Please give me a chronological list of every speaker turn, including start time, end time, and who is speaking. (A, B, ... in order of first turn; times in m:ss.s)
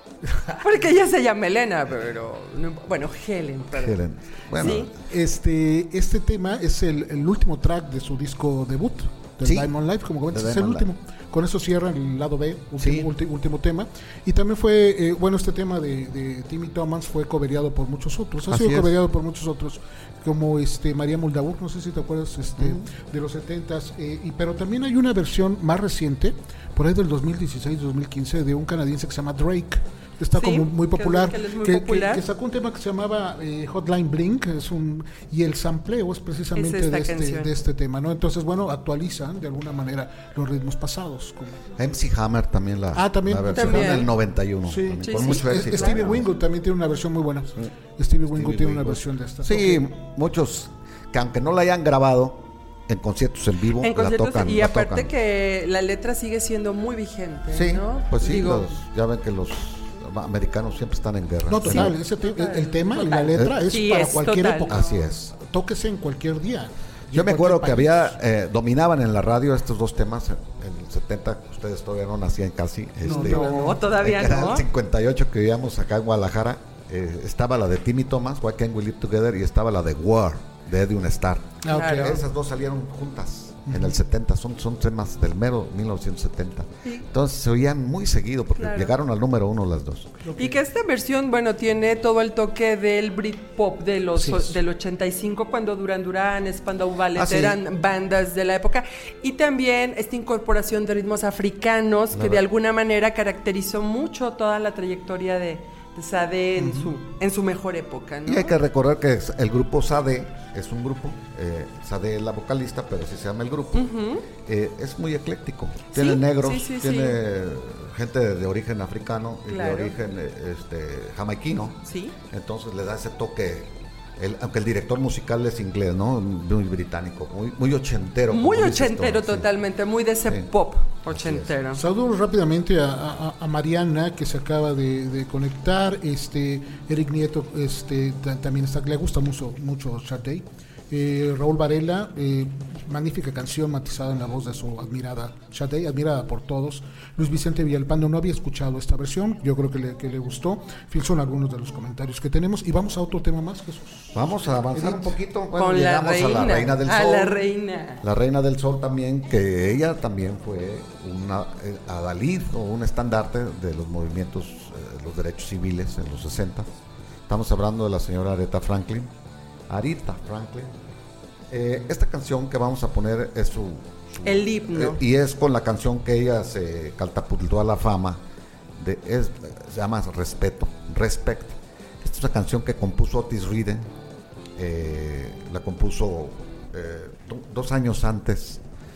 0:00.3-0:00.6 A
0:00.6-0:04.0 B
0:03.7-0:04.9 C
0:04.6-0:04.9 B
0:04.7-0:41.6 A
0:09.4-0:09.7 C
0:10.3-0:10.9 C
0:12.8-0:13.1 C
0:18.5-0:19.0 C
0:22.6-0:22.9 C
0:30.3-0:32.2 B
0:36.6-0:37.5 B
0:41.8-0:46.3 C
0:42.9-0:44.0 A
0:43.4-0:44.1 B
0:44.6-0:49.9 A
0:45.0-0:46.0 B
0:48.3-0:55.1 C
0:53.8-0:58.7 B
0:57.5-1:01.9 C
1:01.5-1:08.2 A
1:01.6-1:05.0 B
1:03.3-1:03.6 C
1:04.7-1:05.2 C
1:07.1-1:30.2 C
1:13.0-1:13.8 A
1:13.1-1:14.6 B
1:21.6-1:22.2 A
1:21.7-1:22.2 B
1:23.6-1:24.0 A
1:28.6-1:28.9 B
1:30.2-1:30.6 A
1:30.4-1:48.6 B
1:34.1-1:34.6 A
1:37.1-1:37.6 C
1:42.1-1:42.4 C
1:46.6-1:46.9 A
1:48.2-2:09.5 C
1:53.7-1:54.2 B
1:55.9-1:57.2 B
1:59.5-1:59.9 B
2:01.8-2:02.1 B
2:08.3-2:11.8 B
2:11.0-2:11.5 C
2:11.7-2:34.2 A
2:34.1-2:37.4 C
2:34.7-2:35.2 A
2:35.6-2:38.0 B
2:38.0-2:46.7 C
2:47.3-2:49.1 C
2:49.7-2:50.8 C
2:51.5-2:58.2 C
2:54.2-2:55.0 B
2:58.8-3:03.9 C
3:04.6-3:08.6 C